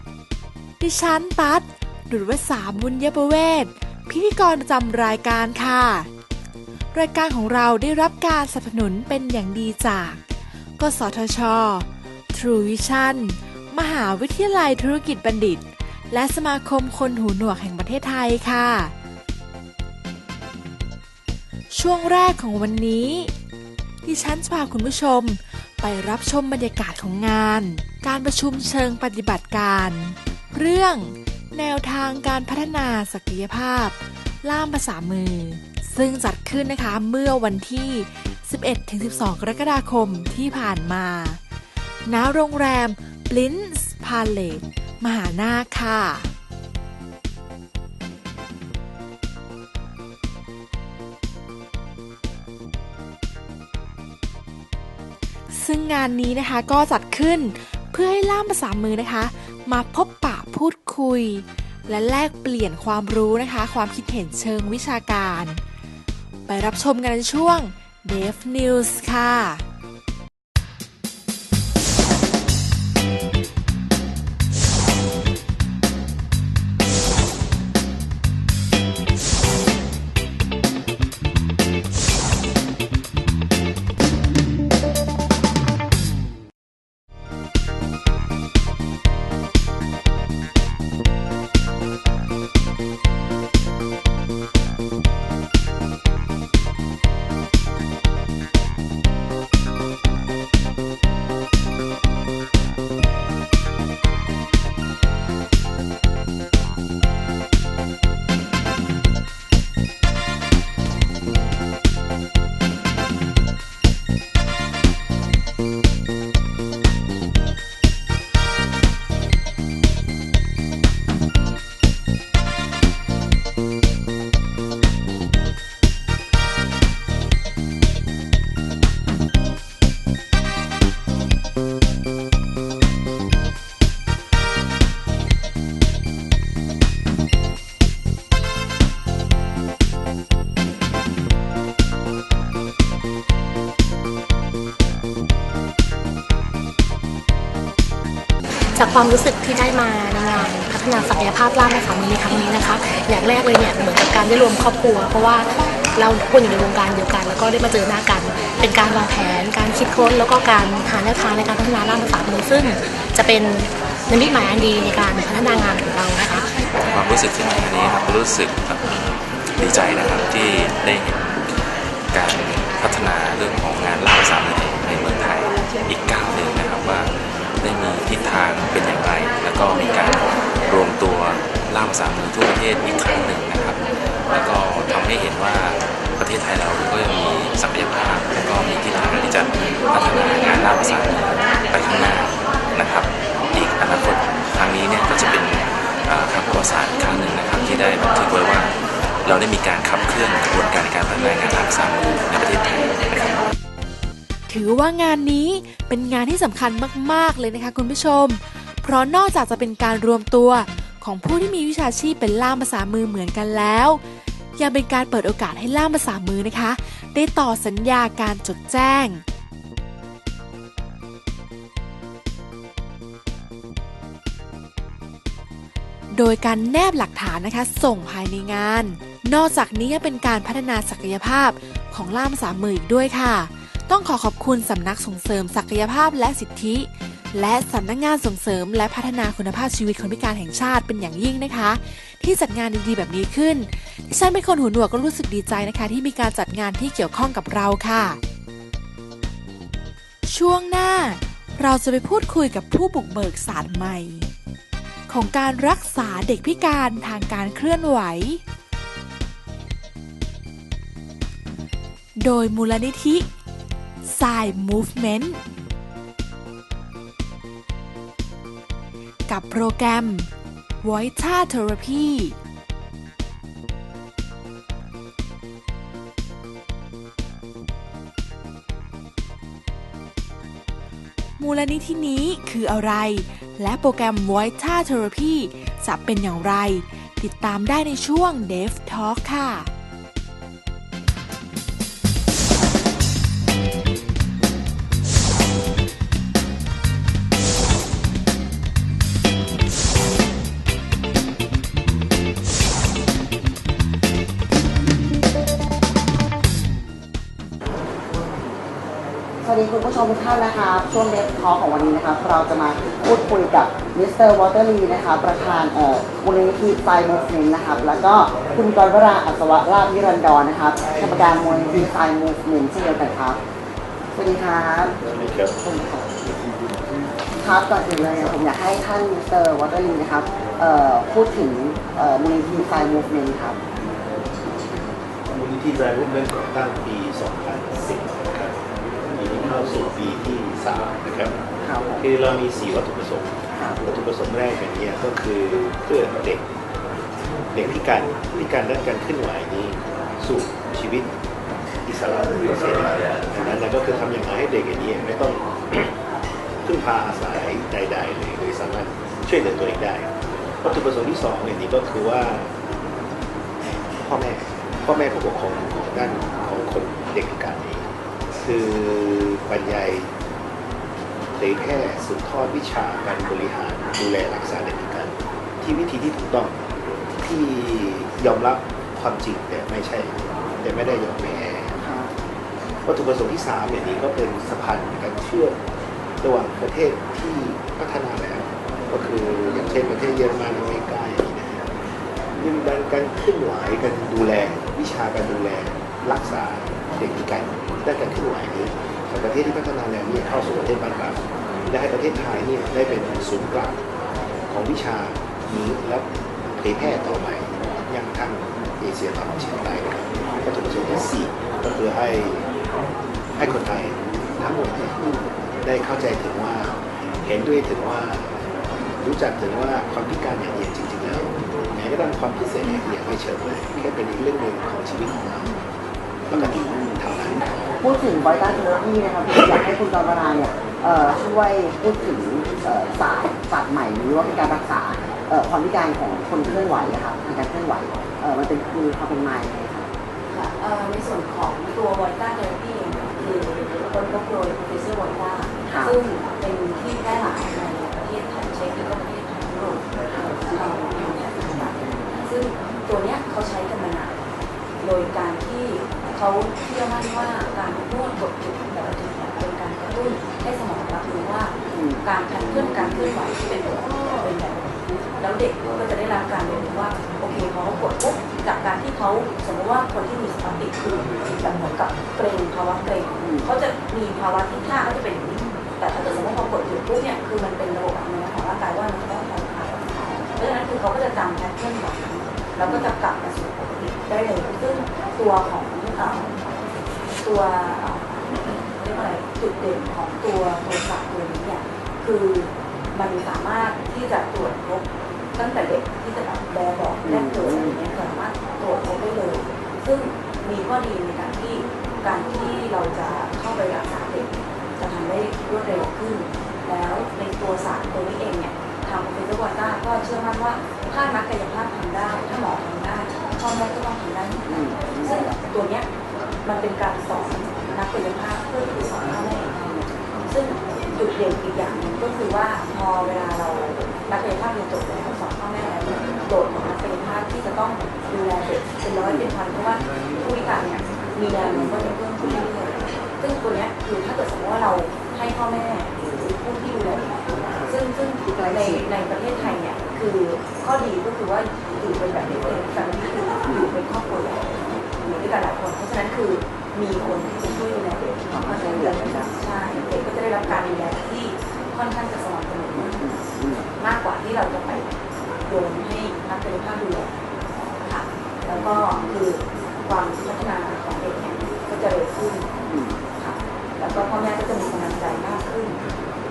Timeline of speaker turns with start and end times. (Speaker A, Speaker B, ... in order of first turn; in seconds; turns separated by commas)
Speaker A: 0.8-6.1, Speaker A: 6.9-10.2, Speaker A: 10.8-18.9, Speaker A: 21.7-23.3, Speaker A: 24.1-41.4, Speaker A: 42.1-46.3, Speaker A: 55.5-65.6, Speaker A: 66.5-69.6, Speaker B: 148.8-166.5, Speaker C: 166.8-169.0, Speaker C: 169.6-171.4, Speaker C: 172.1-198.7, Speaker C: 199.2-203.5, Speaker A: 204.5-214.0, Speaker A: 214.6-219.2, Speaker A: 226.2-248.2, Speaker A: 250.3-254.3, Speaker A: 255.1-258.4, Speaker A: 262.2-263.3, Speaker A: 264.0-265.4, Speaker A: 269.3-270.3, Speaker A: 270.8-272.4, Speaker A: 281.4-289.7, Speaker D: 309.4-323.4, Speaker D: 324.1-325.0, Speaker E: 325.1-325.6, Speaker D: 325.6-326.2, Speaker D: 327.4-333.6, Speaker E: 335.3-338.6, Speaker E: 339.1-341.4, Speaker D: 341.6-342.1, Speaker E: 342.0-346.5, Speaker D: 343.6-343.8, Speaker E: 347.5-351.1, Speaker E: 351.9-355.9, Speaker E: 356.6-362.5, Speaker E: 364.0-367.9, Speaker E: 368.4-370.1, Speaker E: 371.4-376.6, Speaker E: 377.2-381.8, Speaker D: 381.8-382.1, Speaker E: 382.9-385.6, Speaker E: 386.2-391.7, Speaker E: 392.4-403.8, Speaker E: 404.5-412.5, Speaker E: 413.4-415.0, Speaker E: 415.6-418.4, Speaker E: 419.0-425.5, Speaker E: 426.3-427.4, Speaker D: 426.3-426.9, Speaker D: 427.8-439.9, Speaker F: 440.3-449.9, Speaker D: 445.7-446.0, Speaker F: 450.4-454.1, Speaker F: 454.8-486.4, Speaker D: 461.7-462.0, Speaker D: 473.2-473.5, Speaker F: 487.2-515.9, Speaker D: 497.1-497.8, Speaker D: 514.5-515.4, Speaker F: 516.4-553.1, Speaker D: 538.2-538.9, Speaker D: 548.3-549.3, Speaker D: 553.0-553.6, Speaker F: 553.8-554.9, Speaker F: 555.5-557.1, Speaker F: 557.8-562.5, Speaker D: 562.6-563.0, Speaker F: 563.1-565.8